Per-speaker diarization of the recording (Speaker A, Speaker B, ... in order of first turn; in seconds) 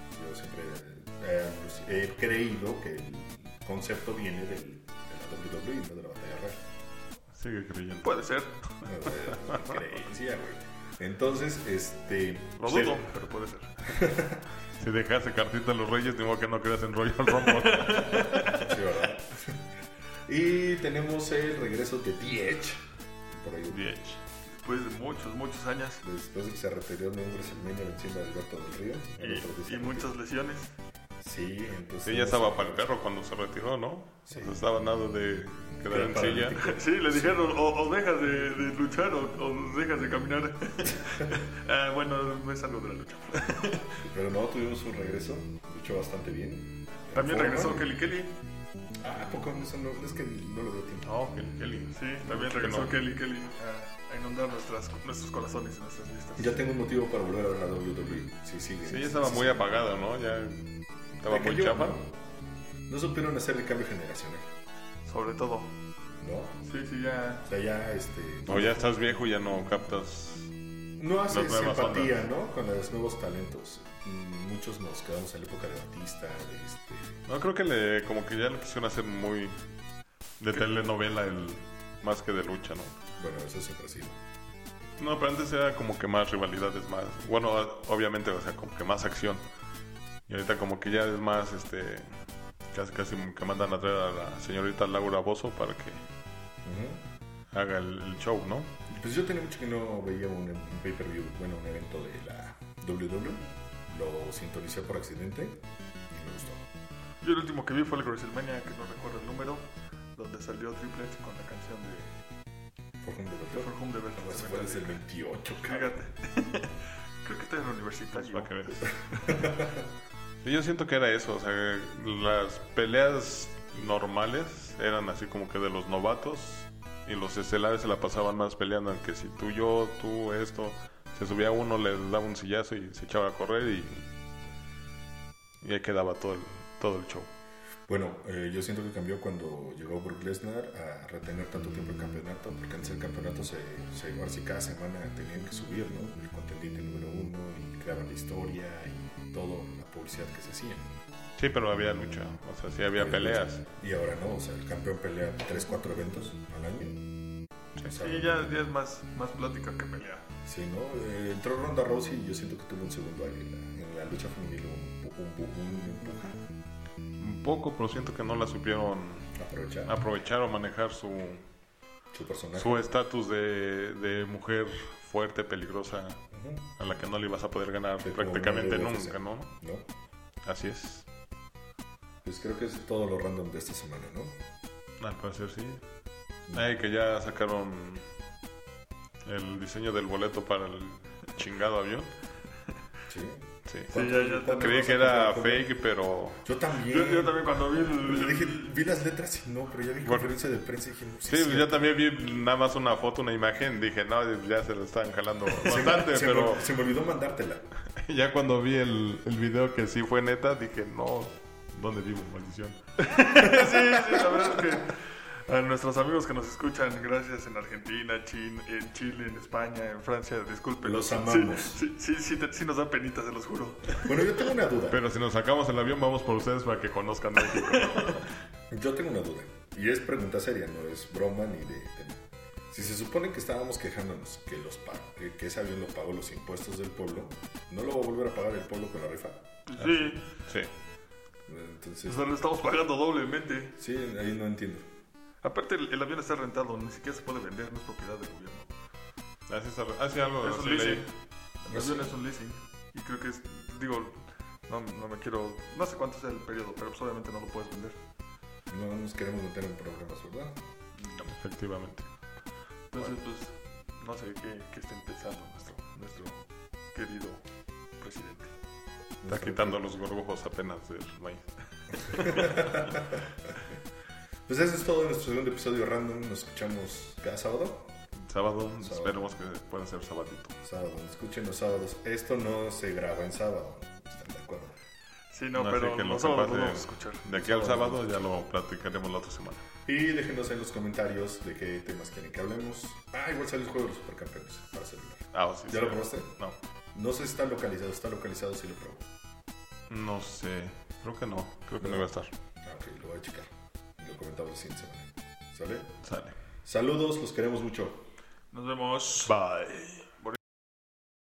Speaker A: 0.1-6.6, 8.8-13.1, 13.9-14.4, 18.4-19.4, 20.3-23.9, 26.0-30.1, 31.2-33.0, 34.3-34.6, 35.9-37.4, 44.0-47.9, 49.0-51.1, 56.4-59.8, 61.3-62.1, 62.9-64.5, 66.2-66.6, 67.5-68.9, 71.0-77.2, 80.5-80.8, 83.2-84.2, 96.6-97.0, 99.0-106.6, 113.0-116.0, 119.1-119.8, 137.9-150.9, 152.9-157.0, 157.8-158.6, 160.4-166.4, 169.3-169.9, 172.1-172.9, 176.3-176.7, 178.0-179.9, 182.2-184.3, 193.1-195.7, 196.4-197.4, 198.0-201.9, 205.6-207.6, 220.8-221.8, 224.0-225.0, 228.7-239.4, 241.5-242.3, 243.8-244.9, 251.7-252.2, 258.7-260.6, 269.2-269.8, 272.3-273.1, 274.5-277.9, 278.8-279.2, 280.6-284.8, 287.3-288.2, 289.9-296.3, 296.9-299.1, 301.8-302.1, 302.6-305.9, 306.6-308.1
Speaker B: 7.3-8.2, 14.8-18.4, 23.7-24.2, 32.0-36.6, 51.0-53.0, 58.8-60.6, 61.2-62.0, 68.5-70.5, 71.3-72.2, 77.3-79.6, 80.4-83.0, 85.0-89.4, 90.3-92.1, 92.7-96.0, 97.5-98.7, 118.1-119.5, 120.4-134.1, 135.6-137.3, 151.4-153.6, 167.2-171.4, 172.5-176.2, 176.8-179.5, 180.4-181.1, 185.0-185.8, 186.5-188.1, 189.2-192.1, 193.7-194.0, 194.6-196.4, 200.0-200.4, 201.3-206.7, 208.0-212.8, 224.9-228.2, 239.8-240.7, 249.5-251.1, 261.2-262.1, 269.3-271.4, 272.1-272.5, 278.2-280.5, 285.6-289.6, 295.3-296.6, 299.9-302.3, 306.0-306.4, 309.3-310.0
Speaker C: 8.0-8.9, 12.6-14.0, 17.3-18.6, 24.5-26.0, 29.2-30.7, 36.6-44.0, 47.1-48.4, 51.9-56.6, 65.1-65.8, 66.6-67.5, 107.2-112.2, 113.5-115.0, 115.6-118.5, 158.0-160.2, 193.9-195.3, 196.9-198.7, 213.0-224.2, 227.5-228.2, 239.7-240.2, 242.1-243.7, 245.4-248.7, 250.4-258.0, 261.0-261.3, 262.9-267.4, 268.0-268.5, 285.3-287.2, 308.5-309.4